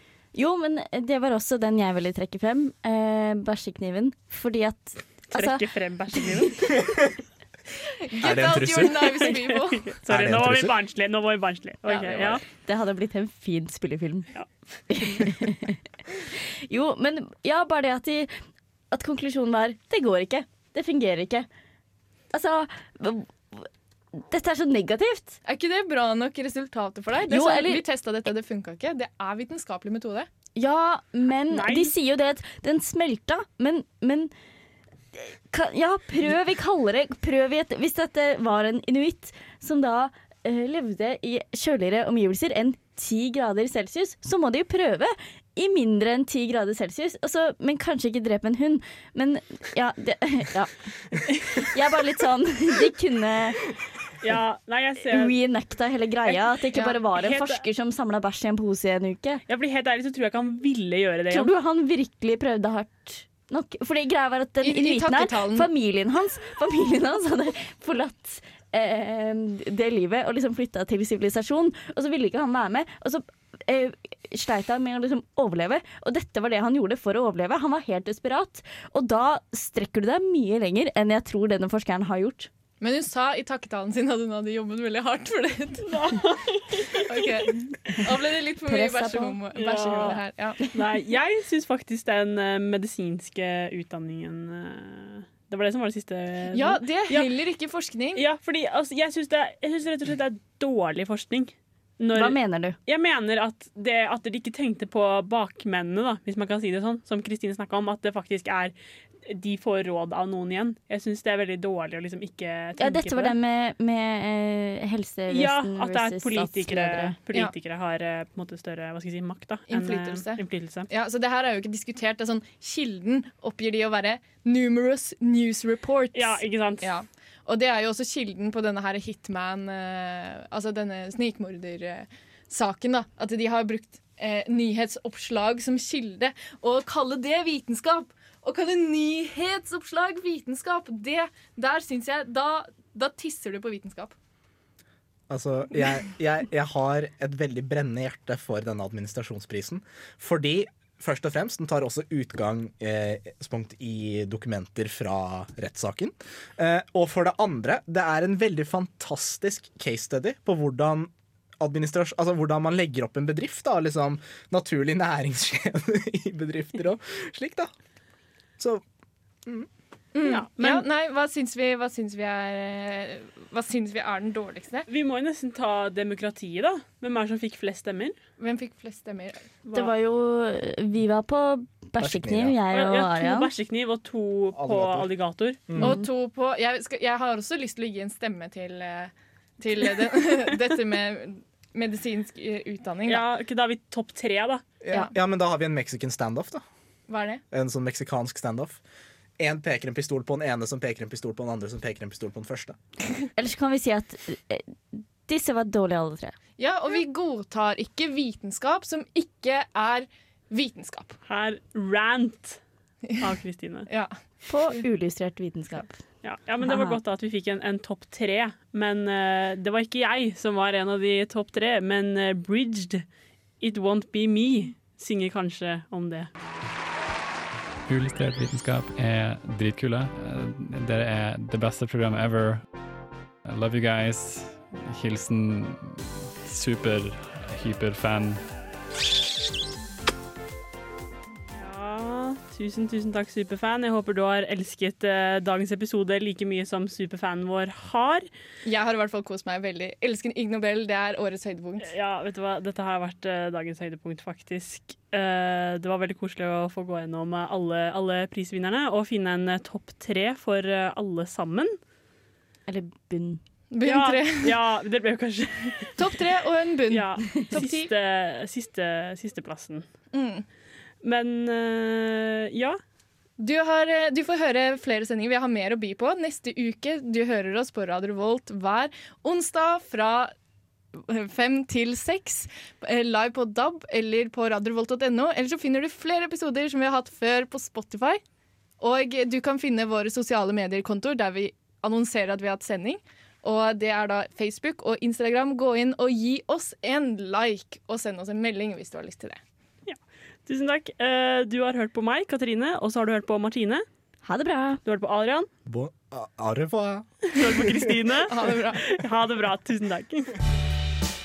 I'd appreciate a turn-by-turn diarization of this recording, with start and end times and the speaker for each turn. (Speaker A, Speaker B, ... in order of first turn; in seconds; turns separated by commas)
Speaker A: 0.3-6.2, Speaker B: 5.3-6.7, Speaker C: 8.1-9.9, Speaker D: 8.2-9.3, Speaker B: 9.4-12.4, Speaker D: 10.1-10.7, Speaker C: 11.9-12.4, Speaker A: 12.6-14.3, Speaker A: 14.9-15.8, Speaker A: 16.3-18.3, Speaker A: 18.9-21.5, Speaker A: 22.3-25.4, Speaker C: 25.4-30.3, Speaker A: 27.3-27.8, Speaker A: 30.6-34.3, Speaker B: 31.5-31.9, Speaker A: 35.1-50.9, Speaker A: 51.5-53.6, Speaker B: 54.2-55.4, Speaker A: 55.1-59.4, Speaker B: 56.2-57.6, Speaker B: 59.5-61.5, Speaker A: 61.3-82.5, Speaker C: 64.6-65.7, Speaker C: 82.8-85.9, Speaker B: 85.8-87.5, Speaker C: 86.9-90.6, Speaker A: 88.7-89.4, Speaker B: 89.5-97.3, Speaker C: 96.5-98.2, Speaker B: 98.1-108.7, Speaker A: 102.1-102.8, Speaker B: 109.2-113.3, Speaker A: 112.8-117.2, Speaker B: 115.3-120.9, Speaker C: 119.7-144.1, Speaker B: 126.1-126.9, Speaker D: 145.3-167.7, Speaker D: 168.6-168.8, Speaker C: 170.1-174.9, Speaker B: 170.2-170.9, Speaker B: 174.9-178.2, Speaker C: 178.4-179.5, Speaker B: 179.7-179.9, Speaker A: 179.7-183.5, Speaker D: 182.0-182.6, Speaker B: 182.7-185.7, Speaker D: 184.5-185.1, Speaker D: 185.7-186.0, Speaker C: 185.8-193.2, Speaker A: 185.8-186.1, Speaker B: 193.1-194.6, Speaker D: 194.8-196.6, Speaker C: 197.1-197.4, Speaker D: 197.5-198.8, Speaker D: 199.4-202.8, Speaker A: 203.3-206.4, Speaker C: 206.6-211.2, Speaker B: 211.2-212.6, Speaker B: 213.2-213.9, Speaker C: 213.9-214.1, Speaker A: 214.5-215.9, Speaker B: 216.2-223.0, Speaker A: 216.6-217.0, Speaker B: 223.6-226.3, Speaker E: 227.9-232.6, Speaker E: 233.4-238.4, Speaker B: 241.5-248.2, Speaker C: 248.6-251.8, Speaker B: 251.8-261.8, Speaker A: 262.7-263.4, Speaker C: 263.7-264.6, Speaker B: 263.8-266.1, Speaker C: 266.0-267.9, Speaker B: 266.9-269.8, Speaker C: 270.1-270.4, Speaker B: 271.0-272.8, Speaker C: 273.4-280.3, Speaker C: 281.0-288.2, Speaker C: 288.8-299.4, Speaker B: 299.9-303.8, Speaker A: 304.2-304.8, Speaker B: 304.8-305.5, Speaker D: 305.7-307.2, Speaker B: 307.3-310.3, Speaker C: 308.3-308.8